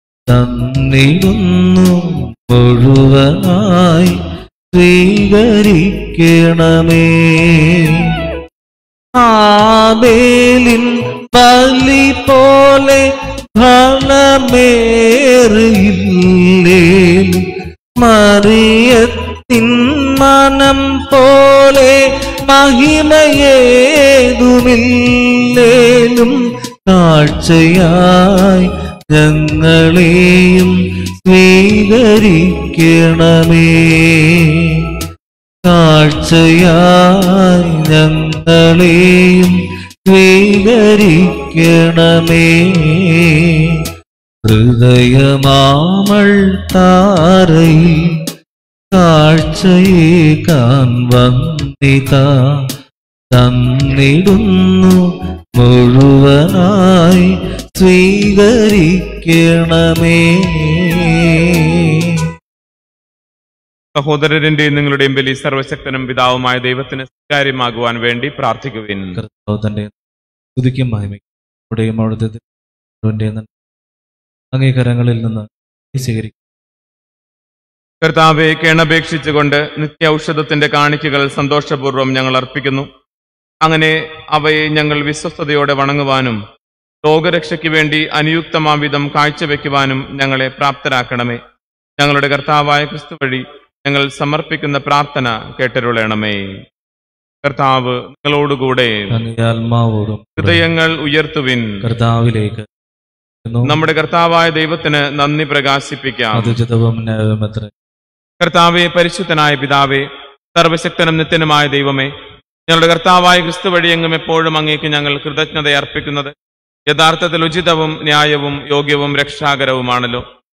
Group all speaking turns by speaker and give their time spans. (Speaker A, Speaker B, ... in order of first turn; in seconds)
Speaker A: 0.3-4.2, 4.7-8.0, 9.2-17.4, 18.0-34.8, 35.6-43.8, 44.4-48.1, 48.9-52.6, 53.3-55.0, 55.6-62.0, 69.1-69.9, 70.6-72.4, 73.0-73.5, 74.5-76.3, 99.1-100.7, 101.8-102.7, 103.4-103.8, 106.3-107.7
Speaker B: 63.9-69.2, 78.0-82.9, 83.6-86.4, 87.0-91.4, 92.0-96.5, 97.4-99.1, 100.4-101.7, 103.7-106.5, 108.4-112.1, 112.7-116.3, 116.9-120.2